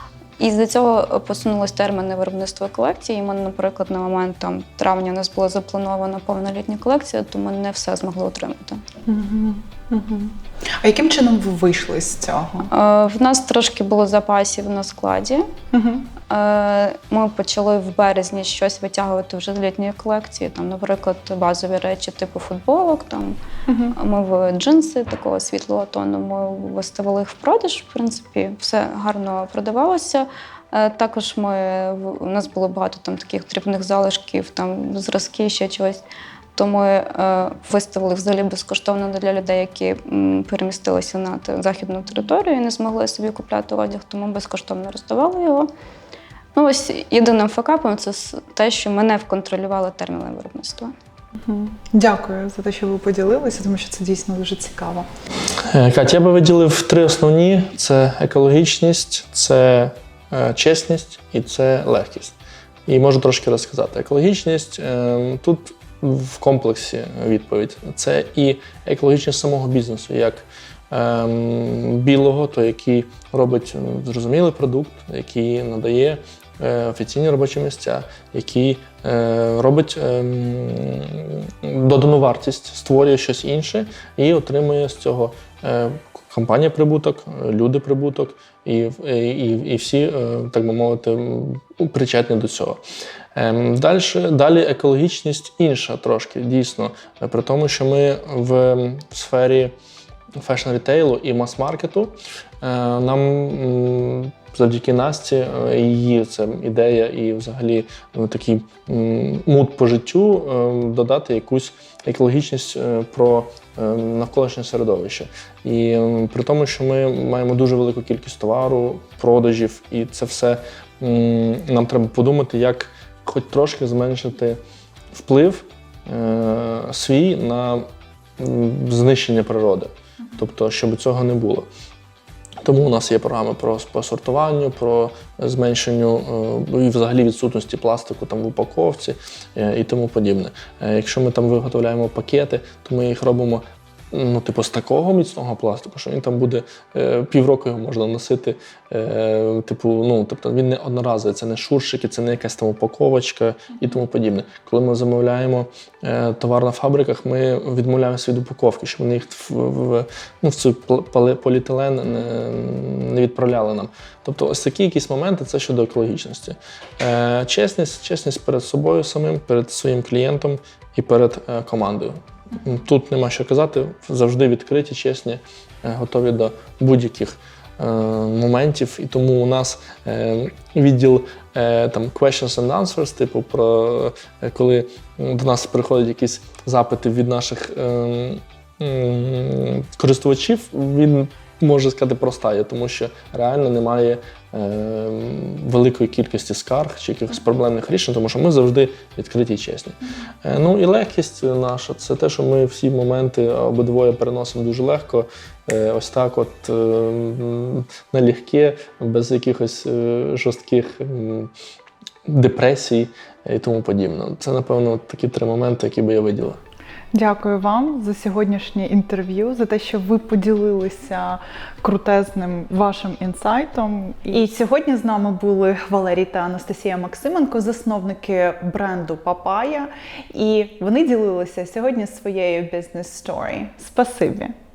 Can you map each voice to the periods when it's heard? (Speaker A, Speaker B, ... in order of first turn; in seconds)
Speaker A: 0.4-8.8, 12.7-15.5, 16.3-23.4, 23.9-36.0, 36.5-45.7, 46.5-50.9
Speaker B: 9.1-12.7, 15.7-16.1, 23.7-23.9, 51.4-55.1, 217.1-234.5
Speaker C: 55.6-92.8, 93.3-99.8, 100.4-124.6, 125.1-127.9, 128.4-131.7, 132.6-211.5, 212.2-216.6